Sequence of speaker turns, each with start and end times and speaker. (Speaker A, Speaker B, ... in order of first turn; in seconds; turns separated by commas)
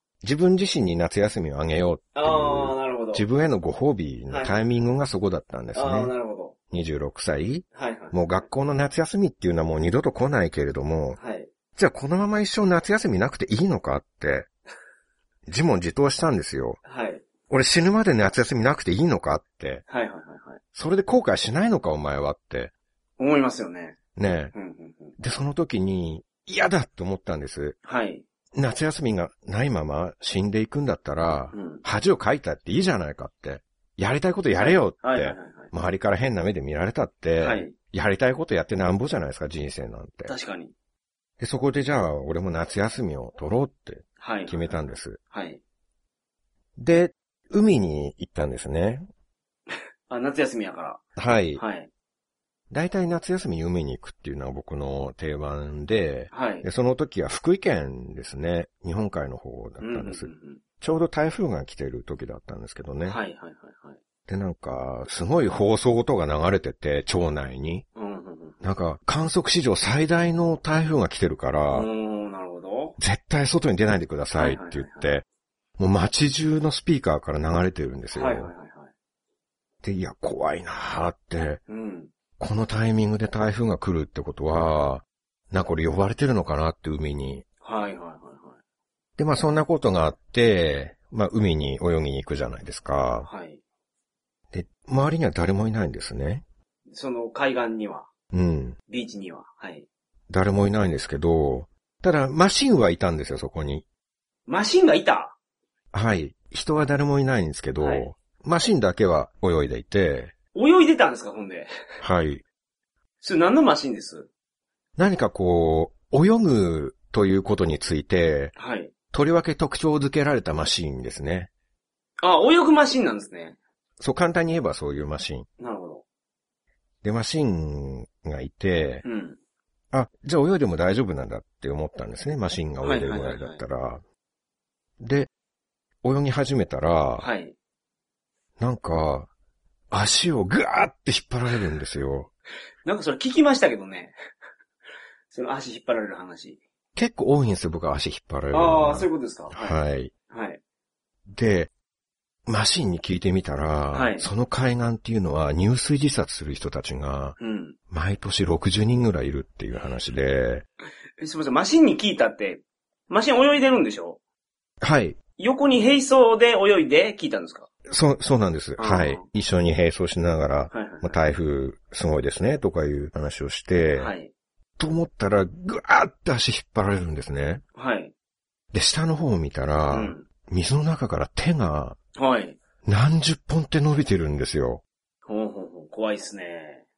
Speaker A: 0.2-6.1, Speaker B: 2.1-3.2, Speaker B: 4.3-4.6, Speaker B: 5.7-6.5, Speaker A: 6.7-11.2, Speaker B: 7.7-8.4, Speaker B: 11.2-11.5, Speaker A: 11.8-14.5, Speaker A: 15.5-16.8, Speaker B: 16.9-17.2, Speaker A: 17.5-19.8, Speaker B: 19.9-20.6, Speaker A: 20.7-22.7, Speaker B: 23.2-24.0, Speaker A: 24.1-24.5, Speaker B: 24.5-25.1, Speaker A: 25.2-27.8, Speaker B: 27.8-28.2, Speaker A: 28.5-40.3, Speaker B: 31.5-31.8, Speaker B: 34.6-35.7, Speaker B: 37.4-37.7, Speaker B: 40.3-40.7, Speaker A: 41.4-45.2, Speaker B: 44.2-44.8, Speaker B: 45.3-45.6, Speaker A: 46.8-49.1, Speaker B: 50.1-51.0, Speaker A: 51.1-51.6, Speaker B: 51.5-51.9, Speaker A: 52.7-60.3, Speaker B: 56.3-56.6, Speaker B: 59.8-60.6, Speaker A: 60.8-63.2, Speaker B: 63.0-64.0, Speaker A: 64.3-67.8, Speaker B: 68.0-68.6, Speaker A: 68.6-71.9, Speaker B: 71.7-73.0, Speaker A: 73.0-75.2, Speaker B: 74.4-75.1, Speaker A: 75.8-78.5, Speaker B: 78.1-78.9, Speaker A: 79.8-81.6, Speaker B: 81.7-82.1, Speaker A: 82.4-87.4, Speaker B: 87.6-88.6, Speaker A: 89.2-93.3, Speaker B: 93.2-93.6, Speaker A: 94.5-96.4, Speaker B: 96.9-98.1, Speaker A: 98.3-98.8, Speaker B: 98.9-99.9, Speaker A: 100.3-103.8, Speaker B: 104.5-105.3, Speaker A: 105.9-110.3, Speaker B: 107.8-108.1, Speaker B: 110.5-111.7, Speaker A: 112.0-112.4, Speaker B: 113.2-114.3, Speaker A: 115.0-118.5, Speaker B: 118.5-118.9, Speaker A: 119.1-121.5, Speaker B: 122.2-123.6, Speaker A: 124.0-125.5, Speaker B: 125.6-126.0, Speaker A: 127.0-129.0, Speaker B: 129.0-129.4, Speaker A: 129.9-134.0, Speaker B: 132.8-133.6, Speaker A: 135.0-135.3, Speaker A: 136.0-137.3, Speaker B: 137.2-137.5, Speaker A: 138.6-139.3, Speaker A: 139.9-142.3, Speaker B: 142.8-144.1, Speaker B: 145.3-146.6, Speaker A: 146.9-150.1, Speaker B: 148.5-149.8, Speaker B: 150.3-150.6, Speaker A: 151.3-151.7, Speaker A: 152.5-157.4, Speaker B: 153.9-154.3, Speaker B: 157.4-157.8, Speaker A: 157.9-160.6, Speaker B: 161.2-164.2, Speaker A: 164.8-165.2, Speaker B: 165.4-167.7, Speaker A: 167.9-174.1, Speaker B: 168.8-169.3, Speaker B: 170.7-171.1, Speaker B: 174.0-174.3, Speaker A: 174.8-177.6, Speaker B: 177.7-178.1, Speaker A: 178.7-182.0, Speaker B: 179.9-180.3, Speaker B: 182.2-182.6, Speaker A: 182.8-184.8, Speaker B: 185.3-186.8